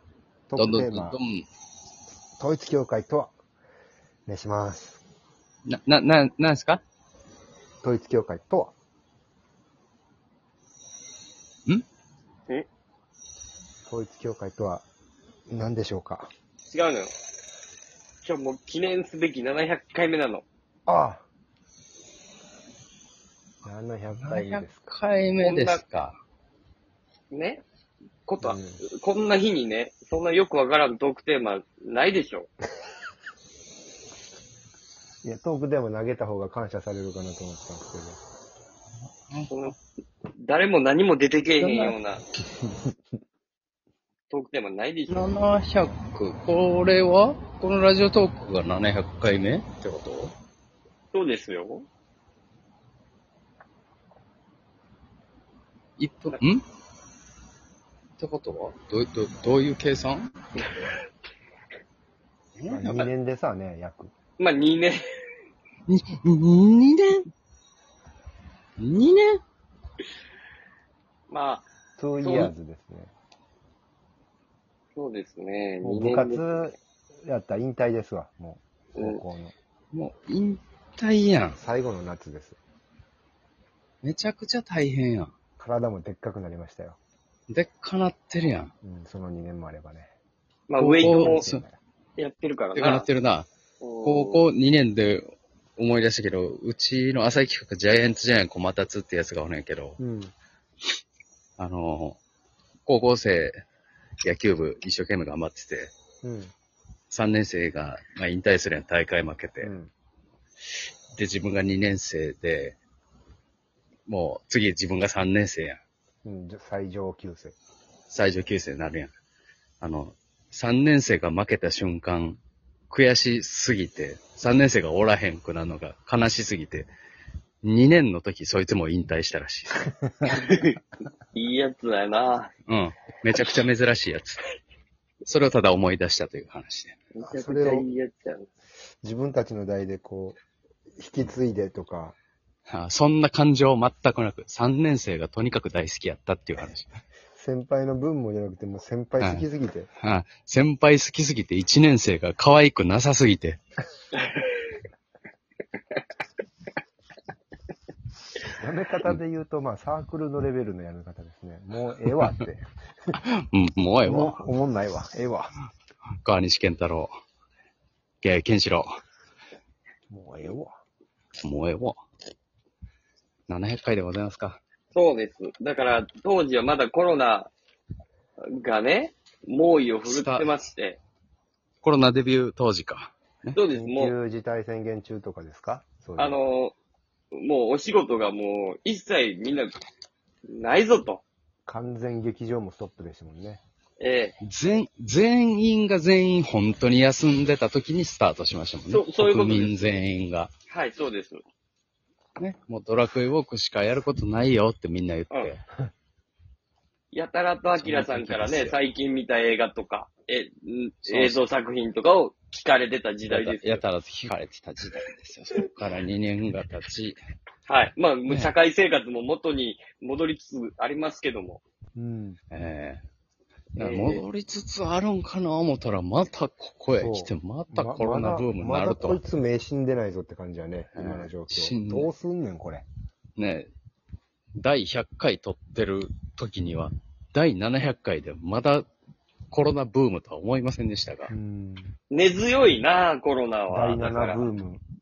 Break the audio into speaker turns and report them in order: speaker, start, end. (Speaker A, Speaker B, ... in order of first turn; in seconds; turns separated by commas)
Speaker A: 0.5-1.2, Speaker B: 0.6-1.4, Speaker A: 2.4-3.3, Speaker A: 4.2-5.0, Speaker B: 5.7-6.8, Speaker A: 7.8-8.7, Speaker A: 13.9-14.8, Speaker A: 15.5-16.3, Speaker C: 16.7-17.1, Speaker C: 18.2-20.4, Speaker A: 20.9-21.2, Speaker A: 23.6-24.9, Speaker B: 24.2-26.2, Speaker C: 25.4-25.8, Speaker C: 27.3-27.6, Speaker C: 28.2-32.5, Speaker A: 28.4-28.8, Speaker A: 35.2-38.2, Speaker C: 39.5-39.7, Speaker C: 40.4-42.2, Speaker B: 41.6-42.0, Speaker A: 42.6-42.9, Speaker C: 44.3-45.3, Speaker B: 45.1-50.3, Speaker C: 51.1-51.9, Speaker B: 56.0-56.6, Speaker B: 58.2-60.3, Speaker B: 62.5-63.1, Speaker A: 62.7-64.1, Speaker C: 64.4-65.1, Speaker B: 65.9-67.2, Speaker B: 68.8-69.4, Speaker C: 71.3-71.7, Speaker A: 72.0-73.1, Speaker C: 72.2-72.5, Speaker C: 74.9-76.7, Speaker A: 75.8-79.5, Speaker C: 78.9-79.2, Speaker B: 79.9-81.6, Speaker A: 81.6-82.6, Speaker B: 84.0-85.3, Speaker A: 85.6-87.0, Speaker B: 87.5-88.7, Speaker A: 88.8-90.1, Speaker C: 90.7-91.4, Speaker B: 90.8-91.6, Speaker A: 91.0-91.8, Speaker C: 92.2-93.1, Speaker B: 92.8-93.5, Speaker C: 93.8-94.4, Speaker B: 94.0-100.0, Speaker A: 100.0-100.3, Speaker B: 101.6-102.2, Speaker B: 102.8-103.5, Speaker B: 104.2-105.9, Speaker A: 106.2-106.5, Speaker B: 107.1-109.7, Speaker A: 109.6-109.9, Speaker B: 111.2-112.8, Speaker B: 114.1-115.8, Speaker A: 116.2-117.5, Speaker B: 118.1-119.1, Speaker B: 119.8-126.9, Speaker B: 127.6-130.6, Speaker C: 130.3-130.8, Speaker C: 131.3-132.5, Speaker B: 132.7-134.4, Speaker B: 135.2-137.0, Speaker C: 137.1-138.5, Speaker A: 137.2-137.9, Speaker A: 139.0-140.4, Speaker A: 141.0-142.2, Speaker B: 142.7-147.0, Speaker A: 147.3-149.9, Speaker B: 149.2-149.4, Speaker B: 150.0-153.6, Speaker A: 158.4-162.7, Speaker B: 163.1-164.4, Speaker A: 164.0-165.5, Speaker B: 166.2-167.1, Speaker B: 168.2-168.9, Speaker A: 170.1-170.8, Speaker B: 171.4-172.0, Speaker B: 173.5-174.6, Speaker C: 174.9-177.5, Speaker C: 178.4-181.0, Speaker B: 180.1-180.5, Speaker B: 181.8-183.6, Speaker C: 183.5-184.1, Speaker A: 183.7-186.4, Speaker C: 186.2-186.7, Speaker C: 187.3-189.8, Speaker C: 190.5-191.2, Speaker A: 191.7-193.6, Speaker C: 194.0-194.4, Speaker B: 194.4-200.5, Speaker C: 198.9-199.8, Speaker C: 200.7-201.4, Speaker B: 202.4-205.6, Speaker C: 207.1-213.8, Speaker B: 207.8-208.8, Speaker B: 211.0-211.5, Speaker B: 213.3-217.2, Speaker C: 217.7-221.6, Speaker B: 218.3-218.5, Speaker A: 221.9-222.4, Speaker B: 222.5-223.0, Speaker B: 223.8-229.2, Speaker C: 223.8-224.2, Speaker A: 226.9-232.8, Speaker B: 230.9-232.1, Speaker B: 233.4-233.7, Speaker B: 234.6-238.9, Speaker B: 239.5-241.3, Speaker A: 241.3-241.9, Speaker C: 242.1-244.4, Speaker A: 243.7-244.8